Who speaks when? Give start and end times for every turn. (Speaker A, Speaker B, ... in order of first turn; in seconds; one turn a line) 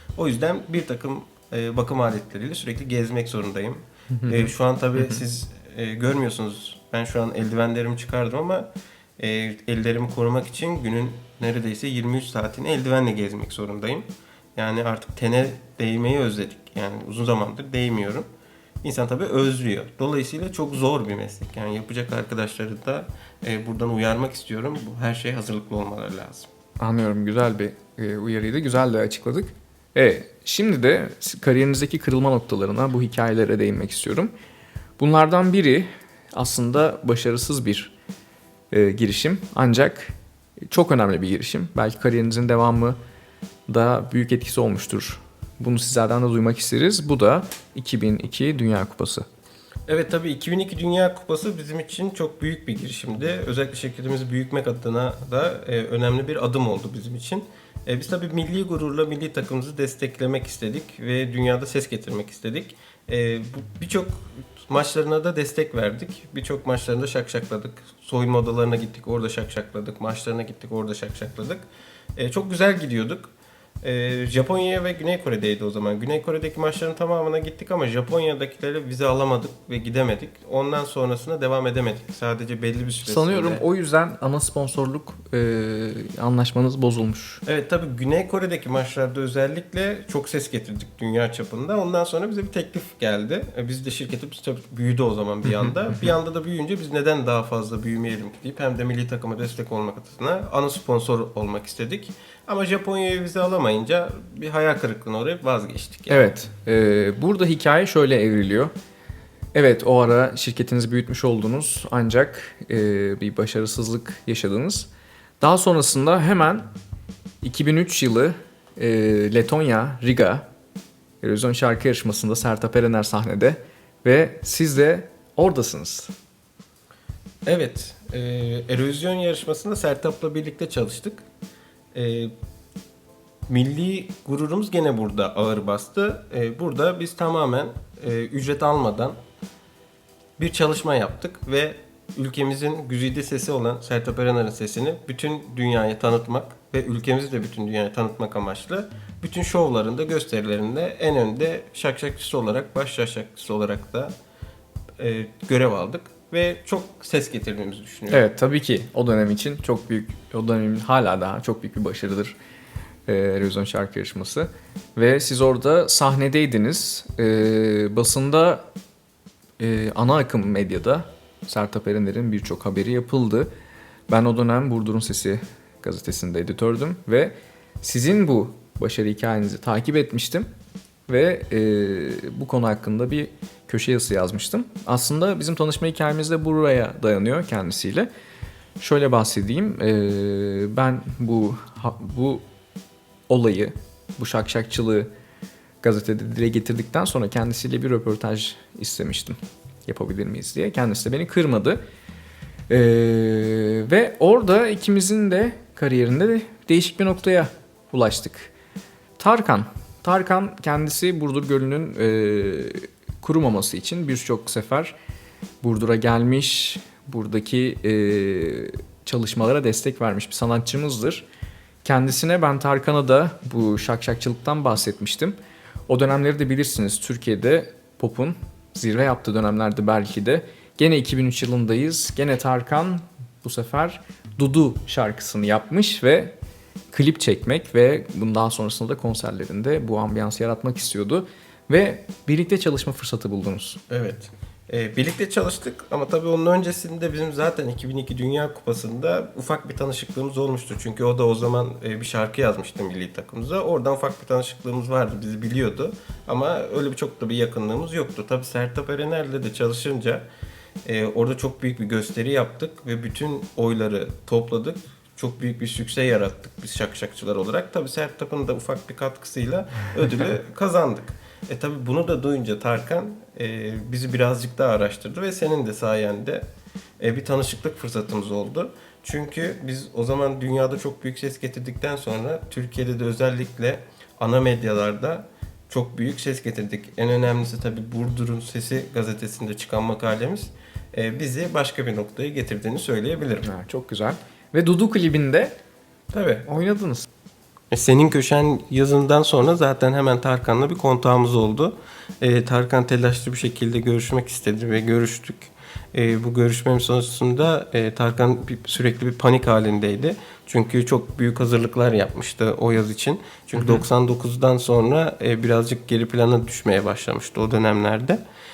Speaker A: 0.1-18.2
Speaker B: 4.1-4.5
Speaker A: 18.8-26.5
Speaker B: 26.8-34.3
Speaker B: 35.0-37.9
Speaker B: 38.7-40.1
Speaker B: 40.7-43.0
Speaker B: 43.7-49.2
Speaker A: 49.9-83.6
Speaker B: 83.0-87.4
Speaker A: 87.4-106.3
Speaker B: 106.1-108.7
Speaker B: 109.5-114.9
Speaker B: 115.4-116.7
Speaker B: 117.4-120.5
Speaker B: 121.2-126.1
Speaker A: 127.4-131.2
Speaker A: 131.9-132.3
Speaker A: 133.5-139.2
Speaker A: 140.4-154.1
Speaker A: 155.0-158.2
Speaker B: 158.1-162.3
Speaker B: 163.1-168.7
Speaker B: 169.6-173.5
Speaker B: 174.1-180.5
Speaker B: 181.1-188.1
Speaker B: 188.8-192.4
Speaker B: 193.3-195.1
Speaker B: 195.8-201.8
Speaker B: 202.7-208.5
Speaker B: 209.2-214.9
Speaker B: 215.6-221.2
Speaker B: 221.8-225.4
Speaker B: 225.9-236.3
Speaker B: 236.9-243.8
Speaker A: 243.9-260.2
Speaker A: 260.8-276.4
Speaker A: 277.0-293.5
Speaker B: 293.4-295.5
Speaker A: 296.1-296.5
Speaker B: 296.4-297.1
Speaker A: 297.7-318.2